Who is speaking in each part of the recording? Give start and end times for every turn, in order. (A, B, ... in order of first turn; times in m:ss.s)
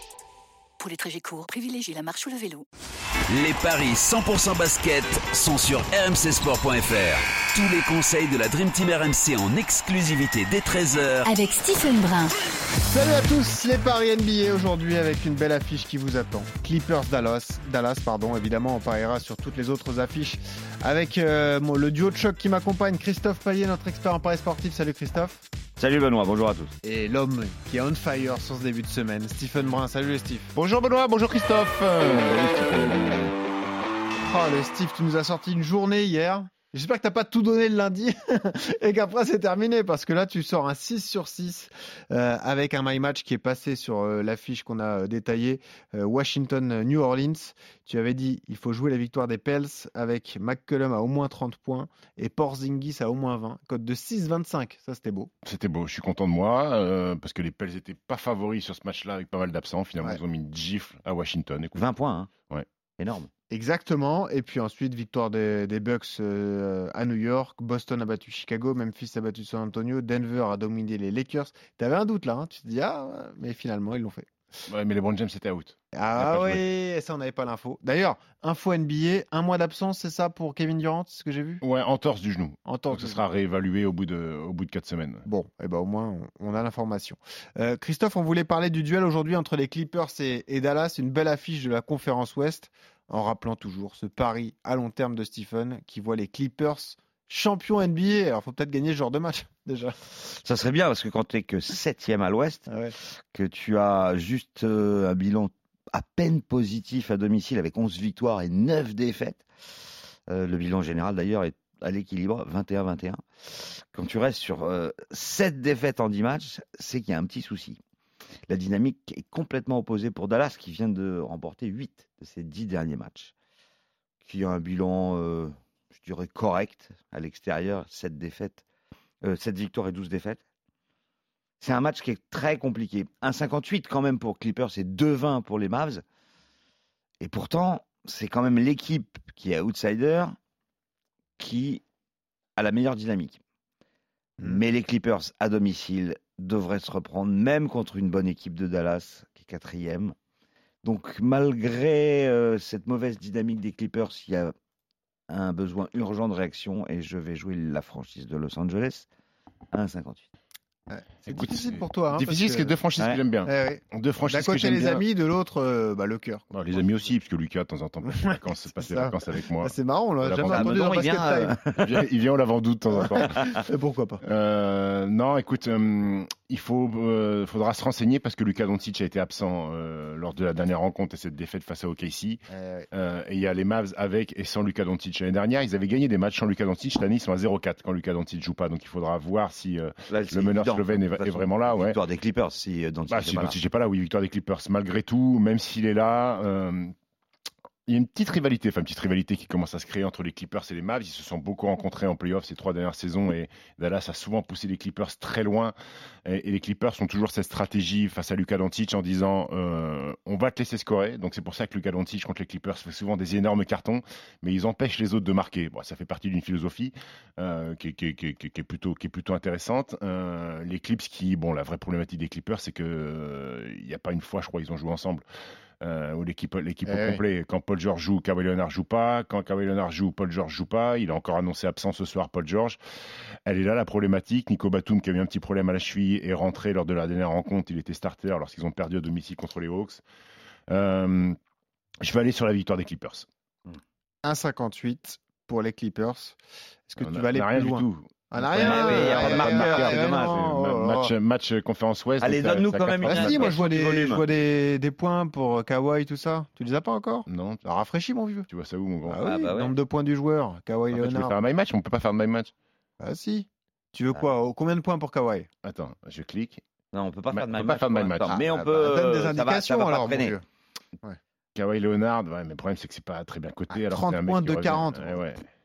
0:00.8-0:02.6 A
0:03.3-0:11.3 B
0:11.2-0:12.3 A
0:12.8-0:25.4 C
0:25.8-0:26.7 D
0:26.8-0:30.5 C
0:30.5-0:33.3 E
0:34.2-0:55.3 C
0:55.4-1:01.8 E
1:01.7-1:02.3 D
1:03.0-1:03.3 D
1:03.5-1:14.3 C
1:14.7-1:16.6 E
1:15.9-1:21.6 C
1:21.6-1:25.2 E
1:22.6-1:23.2 C
1:25.2-1:40.0 C
1:40.3-1:42.7 D
1:42.7-1:42.9 C
1:43.3-1:49.4 D
1:50.3-1:57.8 D
1:58.5-2:03.3 D
2:04.2-2:08.6 D
2:09.2-2:10.4 D
2:11.6-2:16.0 D
2:17.2-2:20.4 D
2:21.4-2:21.8 D
2:22.6-2:23.4 D
2:24.4-2:30.1 D
2:30.8-2:34.5 D
2:35.3-2:39.0 D
2:39.7-2:40.2 D
2:40.9-2:42.8 C
2:41.3-2:45.0 E
2:43.0-2:43.2 D
2:43.4-2:46.4 C
2:46.5-2:50.9 E
2:48.0-2:51.6 C
2:50.4-2:52.0 D
2:51.8-2:53.5 E
2:52.9-2:54.2 C
2:54.2-3:12.0 E
3:02.5-3:02.9 C
3:10.1-3:13.6 D
3:13.1-3:16.9 E
3:17.9-3:25.7 E
3:26.3-3:45.2 E
3:45.8-3:52.8 E
3:46.8-3:47.2 C
3:53.4-4:00.0 E
4:00.7-4:01.4 E
4:02.0-4:03.2 E
4:04.2-4:11.1 C
4:07.0-4:13.6 E
4:08.6-4:10.4 D
4:12.2-4:14.4 D
4:13.0-4:18.5 C
4:17.3-4:17.6 E
4:18.5-4:19.2 E
4:19.0-4:21.4 C
4:19.2-4:19.8 D
4:20.9-4:22.5 E
4:23.0-4:25.5 C
4:25.6-4:26.6 E
4:26.9-4:30.4 D
4:27.3-4:28.4 E
4:28.3-4:30.4 C
4:31.5-4:35.5 E
4:33.7-4:35.2 C